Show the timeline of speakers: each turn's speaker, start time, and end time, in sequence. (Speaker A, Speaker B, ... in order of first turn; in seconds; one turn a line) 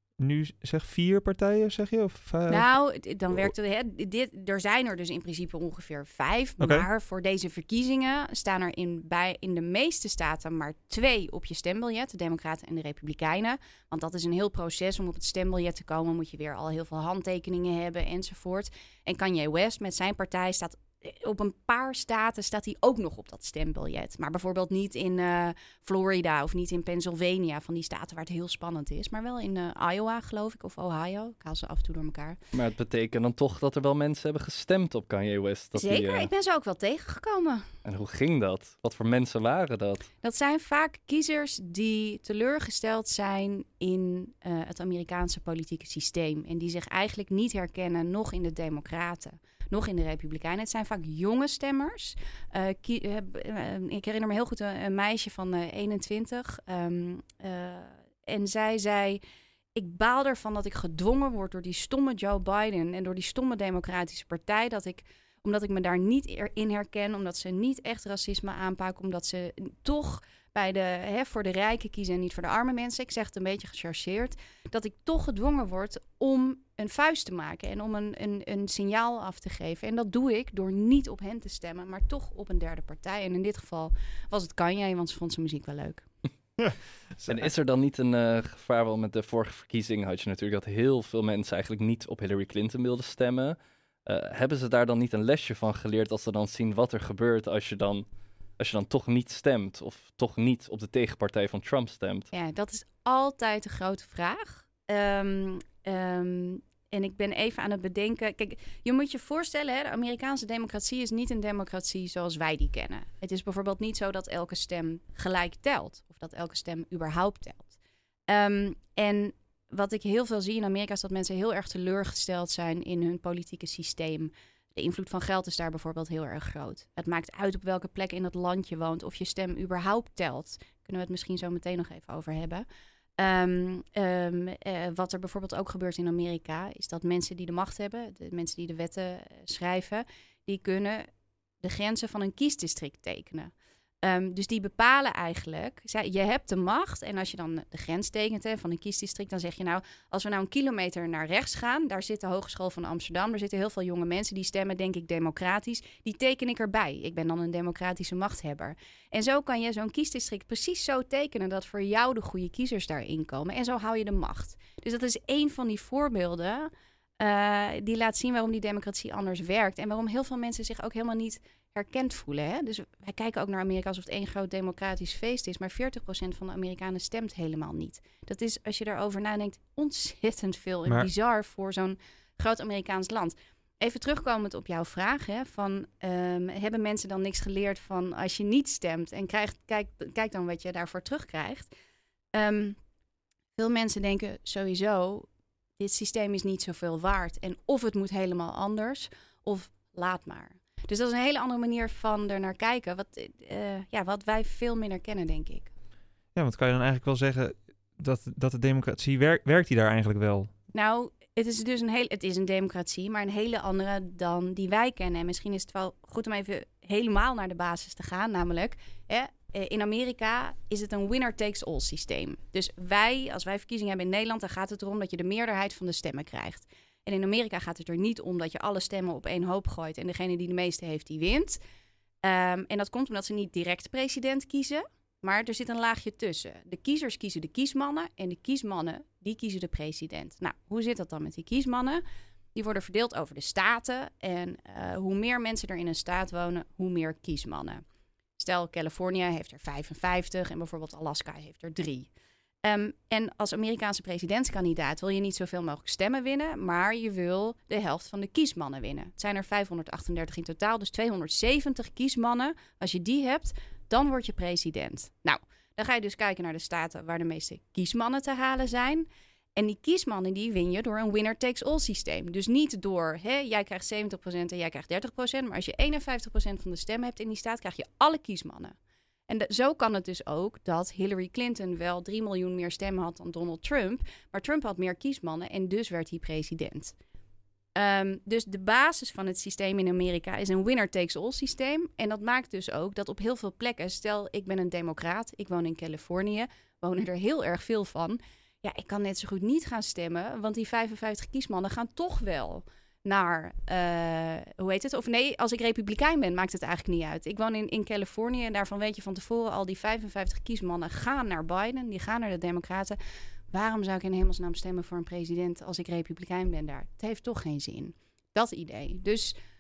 Speaker A: 0.2-2.7
Speaker B: 2.5-32.4
Speaker A: 6.6-6.9
Speaker C: 32.5-36.3
Speaker B: 35.8-37.7
Speaker C: 37.9-40.1
Speaker B: 40.2-59.2
Speaker B: 59.8-86.1
Speaker A: 86.6-87.5
Speaker C: 87.2-98.0
Speaker C: 98.6-102.3
Speaker B: 102.3-117.8
Speaker B: 118.3-132.7
Speaker B: 133.2-141.1
Speaker B: 141.6-191.7
Speaker B: 192.3-192.8
Speaker B: 193.6-205.7
Speaker A: 206.3-210.5
Speaker B: 210.7-231.6
Speaker B: 232.2-242.0
Speaker B: 242.6-247.8
Speaker B: 248.4-252.1
Speaker B: 252.6-278.8
Speaker B: 279.3-286.9
Speaker B: 287.8-313.0
Speaker B: 313.5-319.4